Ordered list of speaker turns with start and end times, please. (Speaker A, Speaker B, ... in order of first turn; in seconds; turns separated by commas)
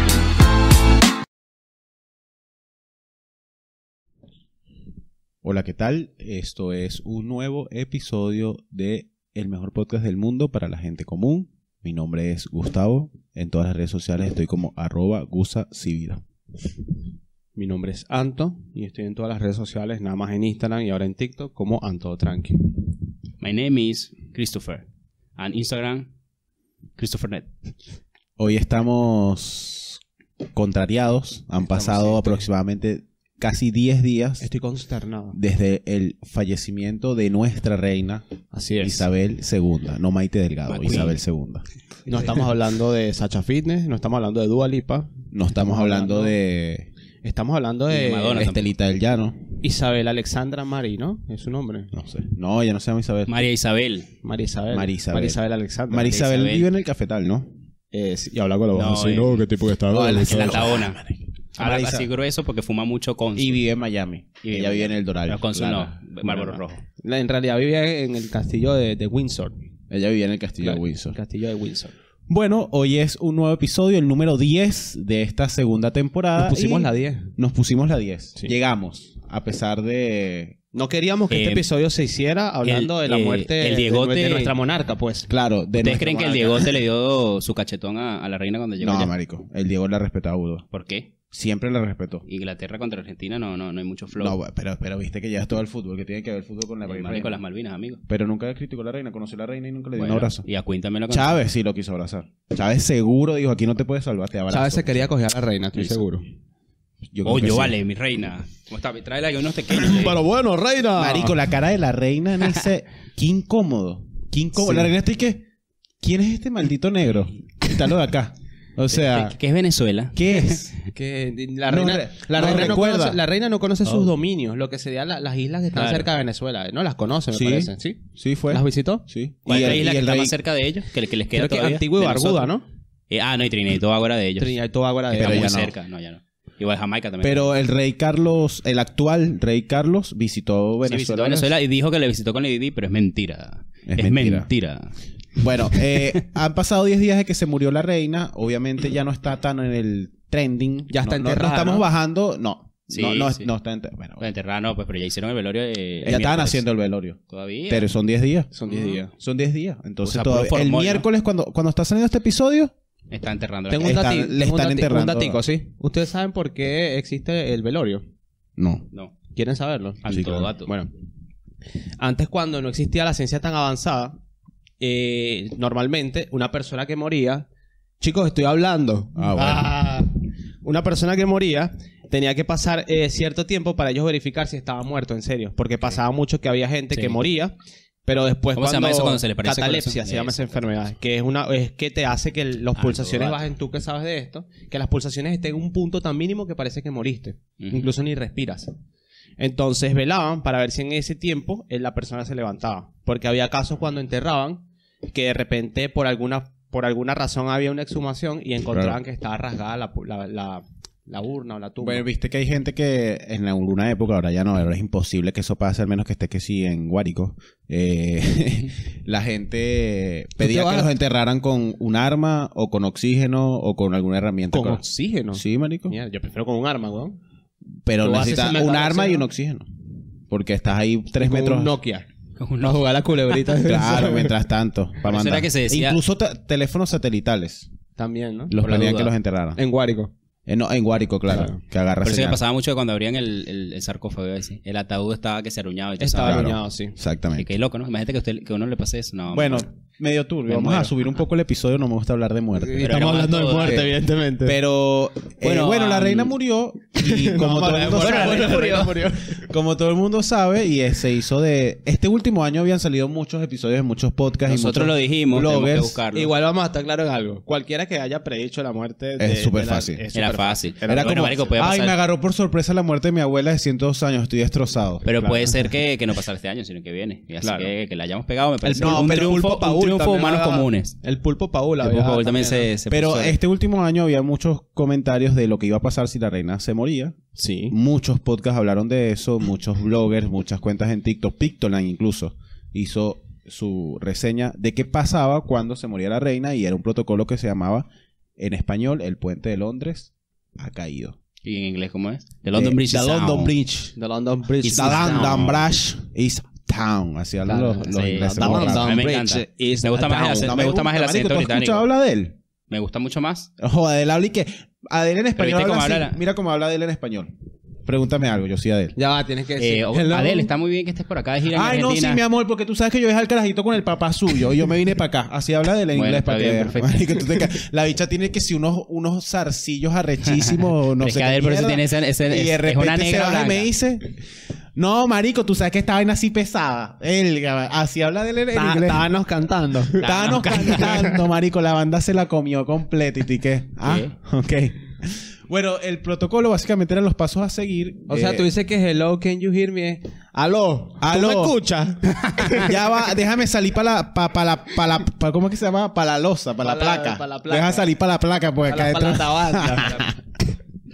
Speaker A: 5.4-16.2, Speaker B: 17.6-22.6, Speaker C: 23.4-24.8, Speaker C: 25.4-26.1, Speaker C: 27.0-27.5, Speaker A: 28.4-30.0, Speaker A: 30.5-34.5, Speaker B: 31.6-32.4, Speaker B: 34.4-35.4, Speaker A: 35.3-38.2, Speaker B: 38.5-39.0, Speaker A: 38.8-41.6, Speaker C: 40.7-41.2, Speaker B: 42.0-46.4, Speaker A: 45.3-46.9, Speaker B: 47.2-48.5, Speaker C: 47.9-48.7, Speaker A: 48.4-49.4, Speaker B: 49.6-51.9, Speaker A: 51.9-53.3, Speaker C: 53.3-54.1, Speaker B: 54.2-56.2, Speaker A: 54.7-55.4, Speaker A: 55.9-57.5, Speaker C: 56.1-56.6, Speaker B: 57.9-60.7, Speaker C: 58.7-59.4, Speaker A: 59.9-62.1, Speaker C: 60.2-61.0, Speaker C: 61.5-63.6, Speaker A: 63.4-66.8, Speaker C: 64.4-66.6, Speaker B: 67.0-69.5, Speaker A: 69.9-71.2, Speaker B: 70.6-71.9, Speaker A: 72.3-80.5, Speaker B: 76.3-77.3, Speaker B: 80.7-85.3, Speaker C: 81.3-81.7, Speaker C: 82.6-84.5, Speaker A: 85.3-86.4, Speaker C: 85.8-89.1, Speaker B: 86.1-86.7, Speaker A: 88.8-90.6, Speaker C: 90.7-91.1, Speaker A: 91.3-92.2, Speaker C: 92.3-94.3, Speaker A: 94.2-97.4, Speaker C: 96.9-98.0, Speaker A: 98.1-100.5, Speaker C: 100.0-101.4, Speaker A: 101.1-105.1, Speaker B: 104.5-106.2, Speaker A: 107.1-107.8, Speaker C: 107.2-110.2, Speaker B: 109.7-111.4, Speaker A: 111.0-115.4, Speaker B: 114.6-114.9, Speaker A: 116.0-119.3, Speaker C: 118.9-120.7, Speaker A: 120.1-120.7, Speaker B: 120.9-129.0, Speaker A: 121.7-123.2, Speaker C: 125.7-126.1, Speaker A: 127.3-130.3, Speaker C: 129.4-132.5, Speaker B: 131.3-132.6, Speaker C: 133.1-134.5, Speaker B: 134.4-135.5, Speaker C: 135.1-137.5, Speaker A: 135.1-135.7, Speaker A: 137.2-141.5, Speaker C: 140.8-144.9, Speaker A: 143.9-144.5, Speaker A: 145.4-154.2, Speaker B: 150.9-151.8, Speaker C: 152.9-153.5, Speaker C: 154.2-156.6, Speaker A: 156.0-158.5, Speaker C: 157.3-157.8, Speaker B: 158.5-159.1, Speaker C: 158.7-159.0, Speaker A: 159.1-162.7, Speaker C: 160.0-161.1, Speaker C: 163.1-164.0, Speaker B: 163.7-168.0, Speaker A: 163.8-165.4, Speaker A: 168.6-168.8, Speaker B: 169.3-170.1, Speaker C: 170.0-170.7, Speaker A: 170.1-170.5, Speaker B: 172.0-174.2, Speaker B: 174.8-177.4, Speaker B: 178.0-187.5, Speaker A: 179.2-179.7, Speaker B: 188.1-198.7, Speaker C: 188.6-190.4, Speaker C: 192.8-193.4, Speaker C: 197.6-197.9, Speaker B: 199.4-212.0, Speaker A: 208.7-209.0, Speaker A: 211.8-224.8, Speaker B: 220.4-220.9, Speaker B: 224.5-227.2, Speaker A: 225.3-226.0, Speaker A: 227.8-229.7, Speaker B: 228.0-229.2, Speaker A: 230.3-231.7, Speaker B: 231.2-232.1, Speaker C: 232.4-232.8, Speaker B: 232.6-234.3, Speaker A: 233.6-237.7, Speaker C: 235.0-236.0, Speaker B: 238.0-238.9, Speaker C: 238.5-239.1, Speaker A: 238.5-239.6, Speaker B: 239.6-240.1, Speaker A: 240.5-242.4, Speaker B: 241.3-241.6, Speaker C: 242.0-246.6, Speaker B: 246.0-247.0, Speaker A: 246.2-247.5, Speaker C: 247.3-249.7, Speaker A: 249.3-253.3, Speaker C: 250.5-250.9, Speaker B: 252.6-254.6, Speaker C: 252.8-253.9, Speaker A: 254.4-258.8, Speaker C: 255.4-256.3, Speaker B: 257.0-259.4, Speaker C: 257.7-259.0, Speaker A: 259.3-266.0, Speaker C: 264.5-266.3, Speaker B: 266.1-271.5, Speaker A: 269.2-270.0, Speaker C: 270.1-271.9, Speaker A: 270.9-275.1, Speaker C: 275.0-280.9, Speaker B: 275.2-275.7, Speaker B: 277.4-277.7, Speaker A: 278.6-279.4, Speaker B: 278.7-282.7, Speaker C: 281.8-283.4, Speaker A: 282.9-287.2, Speaker B: 287.4-287.7, Speaker A: 287.7-297.9, Speaker A: 298.4-301.1, Speaker C: 301.4-303.5, Speaker A: 302.5-303.9, Speaker B: 303.9-305.6, Speaker C: 304.6-305.6, Speaker A: 304.6-309.0, Speaker B: 307.4-310.6, Speaker C: 307.9-311.9, Speaker A: 310.1-312.4, Speaker C: 312.7-313.5, Speaker A: 313.6-317.3, Speaker C: 315.4-316.2, Speaker A: 317.8-319.0, Speaker B: 318.9-320.5, Speaker C: 319.6-322.2, Speaker A: 321.5-334.1, Speaker C: 325.9-327.2, Speaker C: 331.0-333.7, Speaker A: 334.7-339.1, Speaker B: 338.5-341.3, Speaker A: 340.0-348.5, Speaker C: 343.8-344.1, Speaker B: 348.1-352.9, Speaker A: 351.0-351.6, Speaker A: 352.4-360.1, Speaker B: 356.6-357.9, Speaker B: 358.6-360.1